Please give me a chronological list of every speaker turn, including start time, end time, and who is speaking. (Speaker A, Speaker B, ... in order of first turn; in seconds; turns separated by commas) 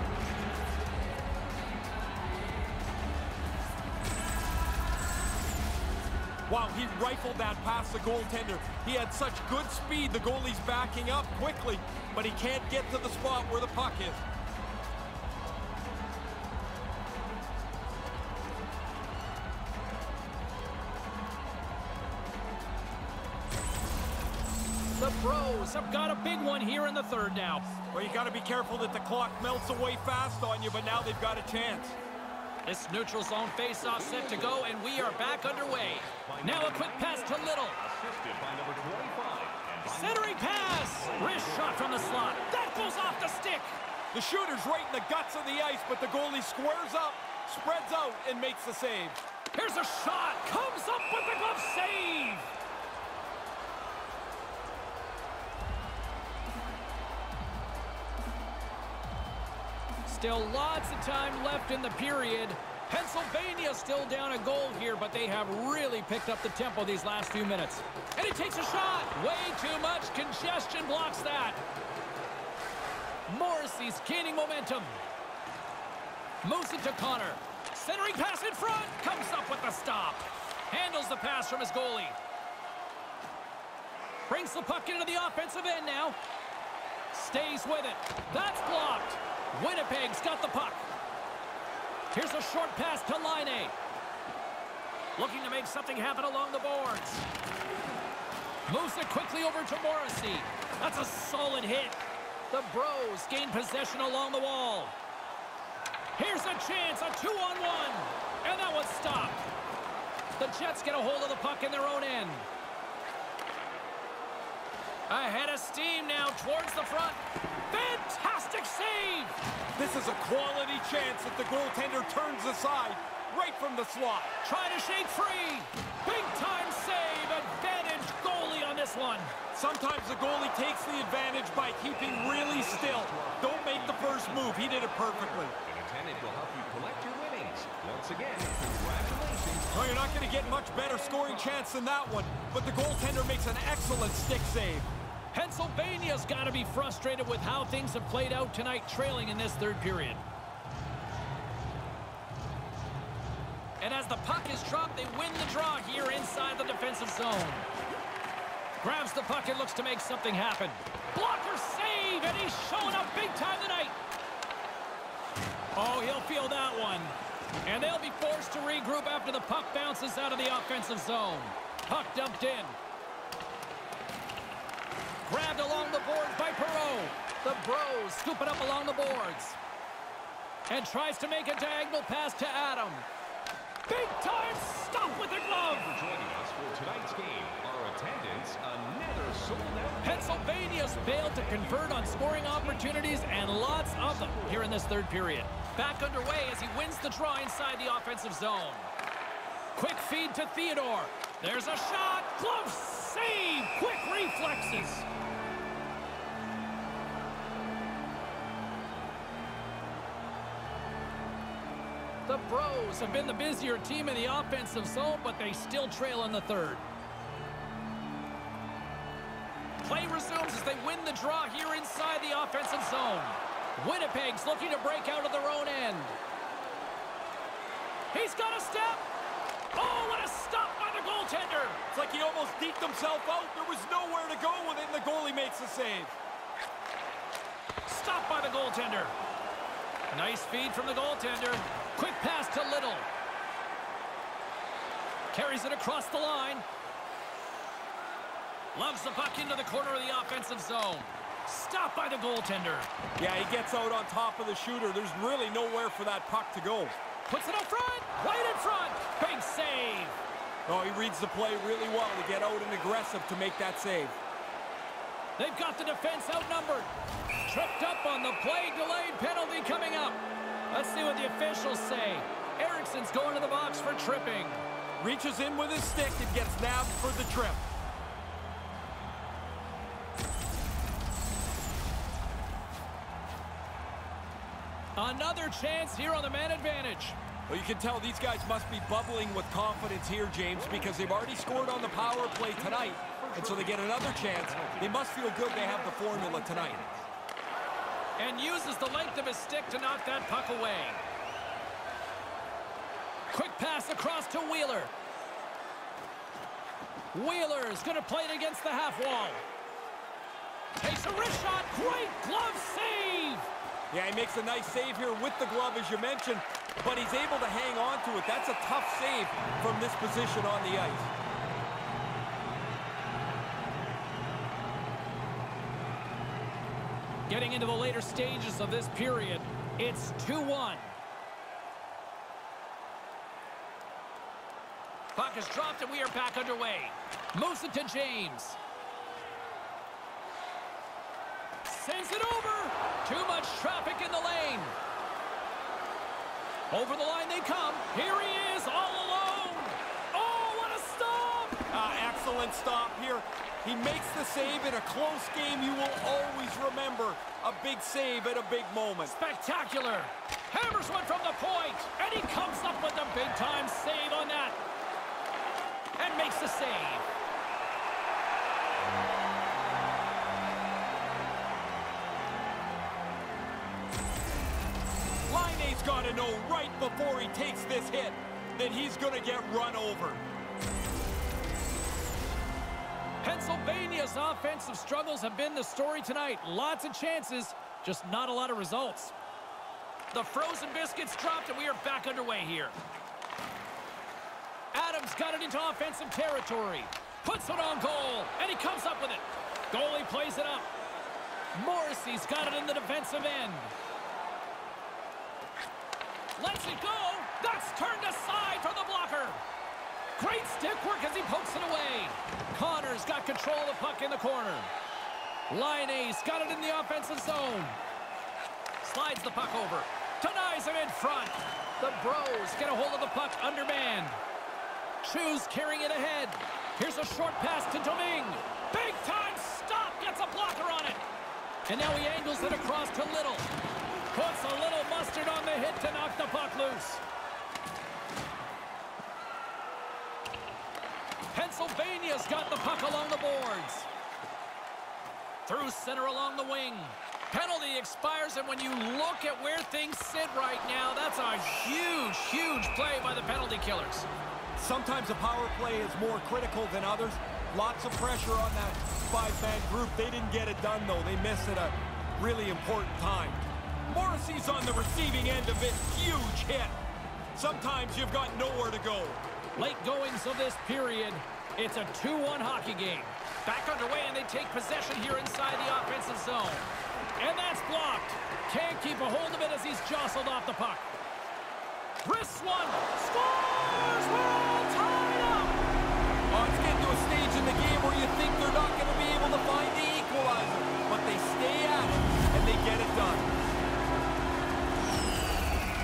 Speaker A: 6.5-14.2, Speaker B: 25.0-27.7, Speaker A: 27.9-32.0, Speaker B: 32.7-37.8, Speaker C: 33.8-41.9, Speaker B: 39.9-43.8, Speaker A: 44.1-49.2, Speaker B: 49.5-52.5, Speaker B: 60.1-71.6, Speaker B: 73.3-75.0, Speaker B: 76.4-82.2, Speaker B: 84.3-86.2, Speaker B: 87.1-90.9, Speaker B: 92.1-93.8, Speaker B: 95.2-97.2, Speaker B: 98.7-102.0, Speaker B: 102.5-104.9, Speaker B: 106.2-109.4, Speaker B: 110.4-112.5, Speaker B: 115.1-119.4, Speaker A: 119.8-124.3, Speaker B: 124.4-129.3, Speaker A: 129.5-135.6, Speaker C: 132.0-141.7, Speaker A: 139.7-144.9, Speaker B: 145.3-150.2, Speaker B: 153.8-157.7, Speaker B: 158.8-164.0, Speaker B: 165.8-172.8, Speaker B: 175.2-179.6, Speaker B: 180.7-183.1, Speaker B: 183.9-185.9, Speaker C: 185.5-194.8, Speaker B: 190.0-198.9, Speaker B: 199.8-205.1, Speaker B: 212.3-216.9, Speaker B: 219.8-226.2, Speaker B: 228.1-229.0, Speaker B: 229.7-231.8, Speaker A: 231.9-236.2, Speaker B: 237.9-239.2, Speaker B: 240.1-243.1, Speaker B: 245.3-246.7, Speaker B: 248.7-252.9, Speaker A: 253.2-257.0, Speaker B: 257.3-260.2, Speaker A: 260.7-264.2, Speaker B: 265.4-266.9, Speaker B: 267.5-270.2, Speaker B: 270.7-274.6, Speaker A: 275.0-277.6, Speaker B: 285.0-287.2, Speaker A: 287.5-296.8, Speaker C: 290.5-297.1, Speaker B: 298.2-301.0, Speaker B: 303.3-304.9, Speaker B: 307.1-309.4, Speaker B: 310.8-313.5, Speaker A: 313.9-321.1, Speaker B: 327.3-330.9, Speaker B: 335.1-338.6, Speaker B: 341.6-344.8, Speaker B: 346.7-351.6, Speaker A: 351.7-359.1, Speaker B: 359.1-364.6, Speaker B: 366.0-367.1, Speaker A: 375.3-380.2, Speaker B: 383.2-389.1, Speaker B: 390.1-392.8, Speaker B: 394.7-400.7, Speaker B: 401.6-403.7, Speaker B: 406.4-409.4, Speaker B: 410.2-414.7, Speaker B: 415.5-417.8, Speaker B: 418.8-424.2, Speaker B: 425.0-431.0, Speaker B: 431.7-433.5, Speaker B: 434.1-437.0, Speaker B: 441.3-443.9, Speaker B: 445.5-454.1, Speaker A: 454.6-466.8, Speaker A: 467.4-469.2, Speaker B: 469.6-480.9, Speaker B: 482.0-485.6, Speaker A: 486.3-493.3